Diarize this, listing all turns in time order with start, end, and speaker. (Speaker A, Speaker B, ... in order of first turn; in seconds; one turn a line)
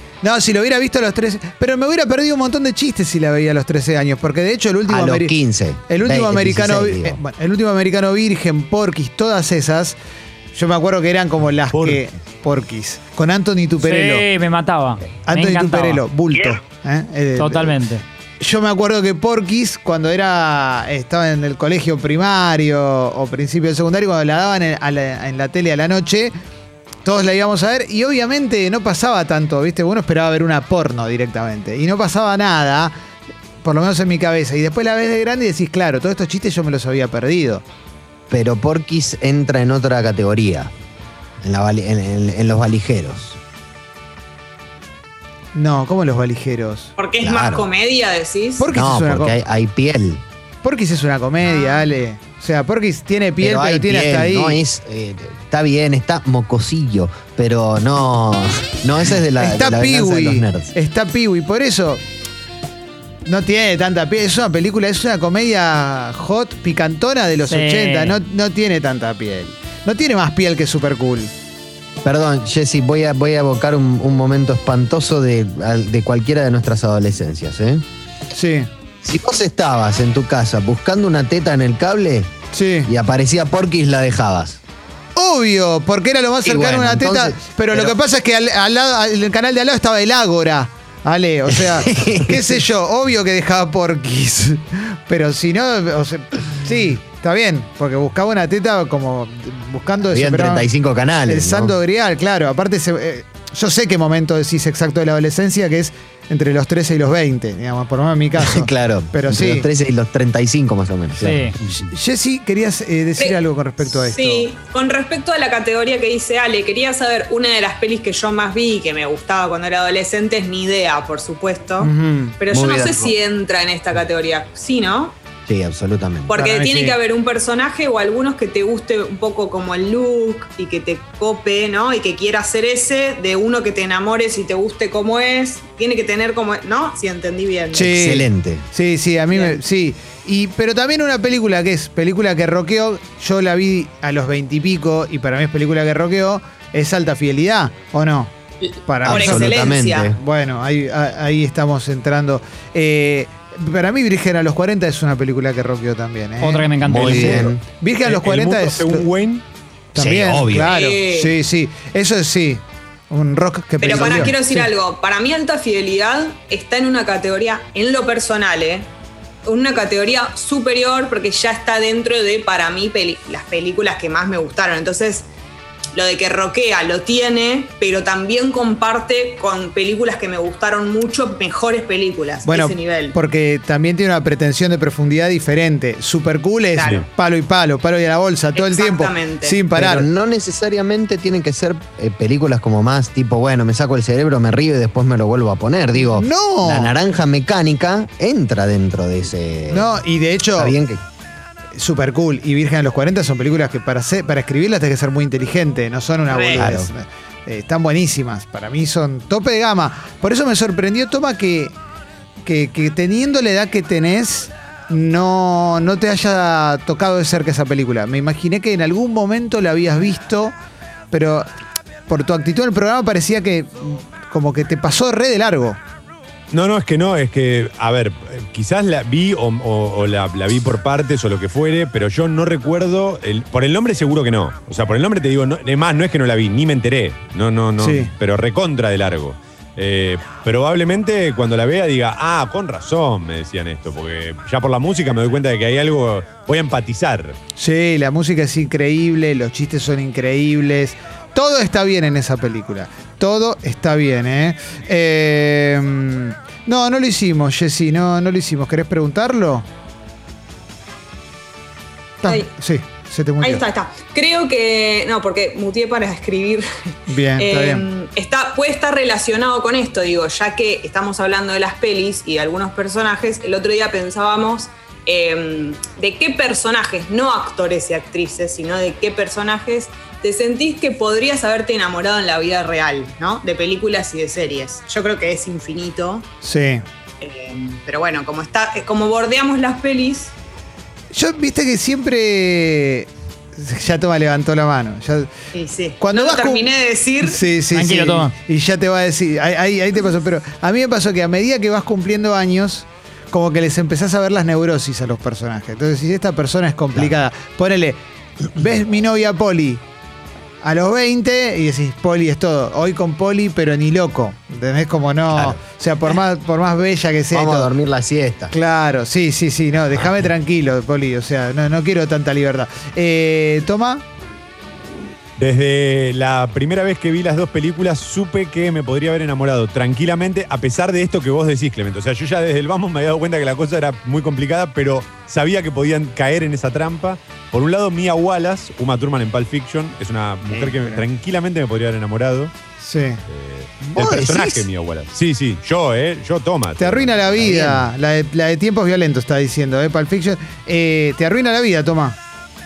Speaker A: 0.2-5.4
Speaker B: 4.9-7.2
Speaker A: 5.9-10.0
Speaker A: 10.5-14.2
Speaker C: 11.7-12.1
Speaker D: 13.8-16.0
Speaker A: 15.3-17.8
Speaker D: 17.4-18.0
Speaker A: 18.4-26.4
Speaker A: 27.0-32.9
Speaker A: 33.6-37.6
Speaker B: 38.3-40.7
Speaker B: 41.4-43.4
Speaker A: 45.5-46.9
Speaker E: 47.0-48.7
Speaker B: 47.2-47.7
Speaker A: 48.6-49.4
Speaker B: 48.7-50.2
Speaker A: 50.6-54.6
Speaker E: 51.5-51.9
Speaker B: 53.4-60.7
Speaker A: 59.4-62.0
Speaker A: 63.2-71.3
Speaker D: 67.5-68.2
Speaker B: 72.0-77.8
Speaker A: 78.3-78.7
Speaker B: 79.0-82.3
Speaker A: 82.5-82.9
Speaker B: 82.9-84.6
Speaker A: 85.2-100.7
Speaker B: 86.4-88.0
Speaker B: 91.5-92.6
Speaker B: 100.1-101.8
Speaker A: 101.3-109.7
Speaker B: 108.4-111.7
Speaker D: 111.2-111.5
Speaker A: 111.9-114.5
Speaker E: 113.9-125.2
Speaker A: 121.8-122.4
Speaker B: 122.5-123.2
Speaker B: 125.5-126.3
Speaker E: 126.3-137.9
Speaker A: 126.3-127.0
Speaker B: 137.7-138.7
Speaker A: 137.8-148.3
Speaker E: 139.3-139.6
Speaker E: 148.6-150.1
Speaker A: 148.9-159.1
Speaker B: 149.0-150.2
Speaker D: 156.4-157.5
Speaker B: 156.8-157.6
Speaker C: 158.1-159.4
Speaker A: 159.9-164.7
Speaker B: 159.9-160.8
Speaker E: 160.6-161.3
Speaker E: 163.8-168.9
Speaker B: 163.9-164.3
Speaker E: 169.4-175.3
Speaker E: 175.9-183.2
Speaker A: 182.5-190.1
Speaker E: 186.8-187.0
Speaker E: 188.5-189.6
Speaker B: 189.7-199.9
Speaker A: 196.0-196.9
Speaker A: 199.7-200.8
Speaker B: 200.6-201.0
Speaker A: 201.8-211.7
Speaker E: 206.3-206.7
Speaker B: 206.6-206.9
Speaker A: 212.4-220.6
Speaker A: 221.1-221.5
Speaker A: 222.1-225.8
Speaker C: 226.5-247.4
Speaker A: 237.8-238.1
Speaker A: 247.6-259.7
Speaker A: 262.2-263.6
Speaker E: 262.2-262.5
Speaker E: 263.4-286.3
Speaker A: 267.1-267.9
Speaker A: 286.4-286.8
Speaker E: 287.2-290.3
Speaker A: 291.1-295.3
Speaker E: 295.5-297.4
Speaker A: 296.0-296.7
Speaker A: 297.2-308.0
Speaker D: 297.7-298.3
Speaker A: 308.5-309.8
Speaker A: 310.6-317.7
Speaker B: 315.3-315.6
Speaker B: 317.3-318.5
Speaker A: 318.5-324.0
Speaker C: 325.4-342.5
Speaker A: 340.4-341.0
Speaker A: 342.8-343.2
Speaker C: 343.3-347.6
Speaker B: 343.9-344.7
Speaker A: 346.8-352.2
Speaker B: 347.4-347.8